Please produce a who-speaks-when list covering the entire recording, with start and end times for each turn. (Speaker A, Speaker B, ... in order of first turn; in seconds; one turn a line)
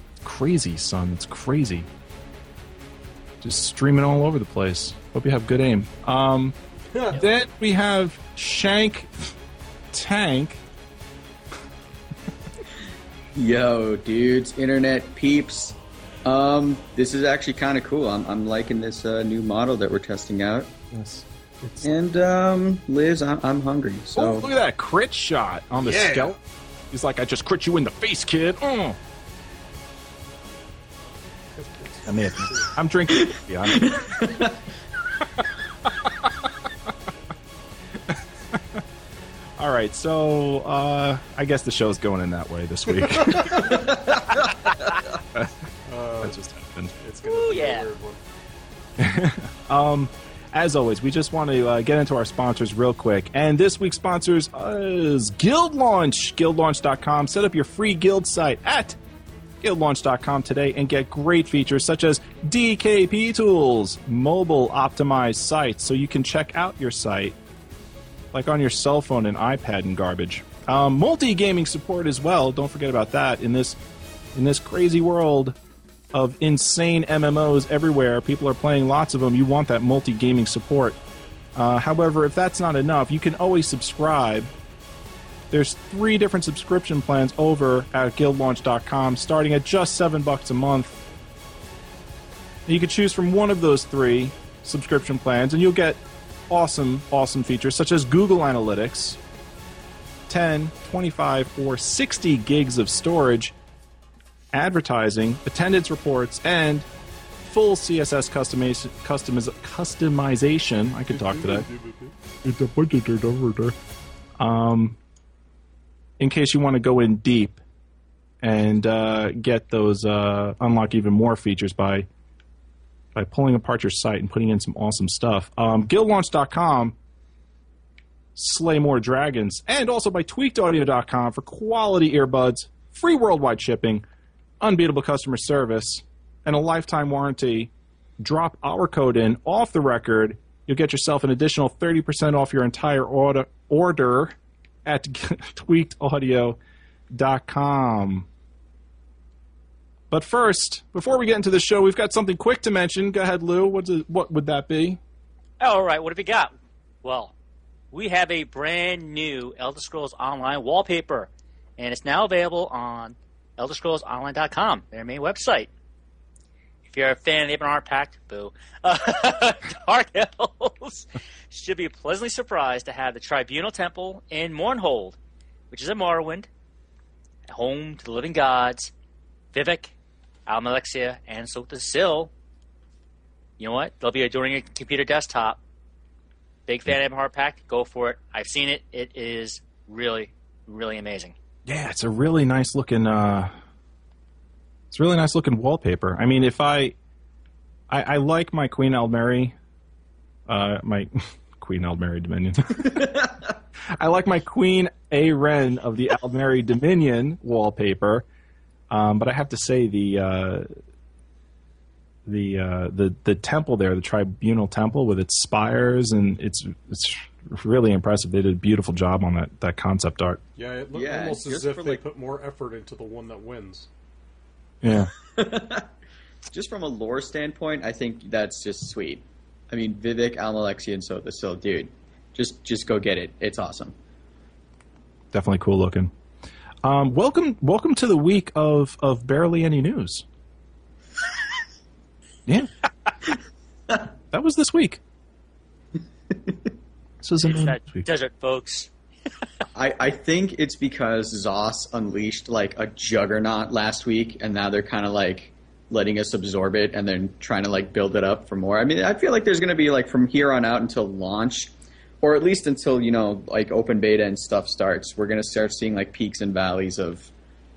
Speaker A: 0.2-1.9
Speaker A: 3.4-6.5
Speaker B: 6.9-7.2
Speaker A: 7.1-9.3
Speaker A: 9.9-10.6
Speaker C: 13.3-20.7
Speaker A: 20.9-21.9
Speaker C: 21.8-24.5
Speaker A: 24.1-26.4
Speaker B: 25.8-26.3
Speaker A: 26.9-29.0
Speaker B: 31.6-32.7
Speaker A: 32.0-33.9
Speaker C: 33.1-34.6
Speaker A: 36.0-36.5
Speaker A: 38.1-38.8
Speaker A: 39.6-44.0
Speaker B: 43.2-43.8
Speaker C: 43.7-44.2
Speaker B: 45.9-46.4
Speaker A: 46.2-47.0
Speaker B: 47.0-48.2
Speaker D: 47.2-47.9
Speaker A: 49.0-59.0
Speaker A: 59.6-67.3
Speaker A: 68.3-73.8
Speaker A: 74.3-75.5
Speaker A: 76.1-81.0
Speaker A: 81.5-84.5
Speaker A: 85.5-91.0
Speaker A: 92.7-99.2
Speaker A: 100.3-103.5
Speaker A: 104.5-106.9
Speaker A: 107.4-111.7
Speaker B: 111.1-112.1
Speaker A: 112.4-113.7
Speaker A: 114.4-115.0
Speaker A: 116.2-117.6
Speaker A: 118.4-122.1
Speaker A: 123.1-127.0
Speaker A: 128.3-134.0
Speaker A: 134.6-146.6
Speaker A: 147.1-148.3
Speaker A: 150.1-155.0
Speaker D: 155.6-157.3
Speaker D: 157.9-165.7
Speaker D: 166.9-175.2
Speaker D: 175.7-176.5
Speaker D: 177.5-178.9
Speaker D: 179.5-179.9
Speaker D: 180.5-182.3
Speaker D: 183.6-185.6
Speaker D: 186.7-191.3
Speaker A: 191.7-193.5
Speaker A: 194.9-196.9
Speaker A: 197.9-199.5
Speaker A: 200.5-203.2
Speaker C: 202.8-203.4
Speaker A: 203.9-208.2
Speaker A: 208.9-210.7
Speaker A: 212.2-220.4
Speaker B: 220.6-223.9
Speaker C: 220.9-222.0
Speaker A: 224.8-225.1
Speaker C: 225.2-225.9
Speaker C: 226.5-233.9
Speaker A: 235.3-236.1
Speaker A: 236.8-240.2
Speaker A: 242.4-242.7
Speaker A: 244.3-245.0
Speaker C: 246.3-246.6
Speaker A: 247.2-248.1
Speaker D: 247.4-248.9
Speaker C: 249.7-267.3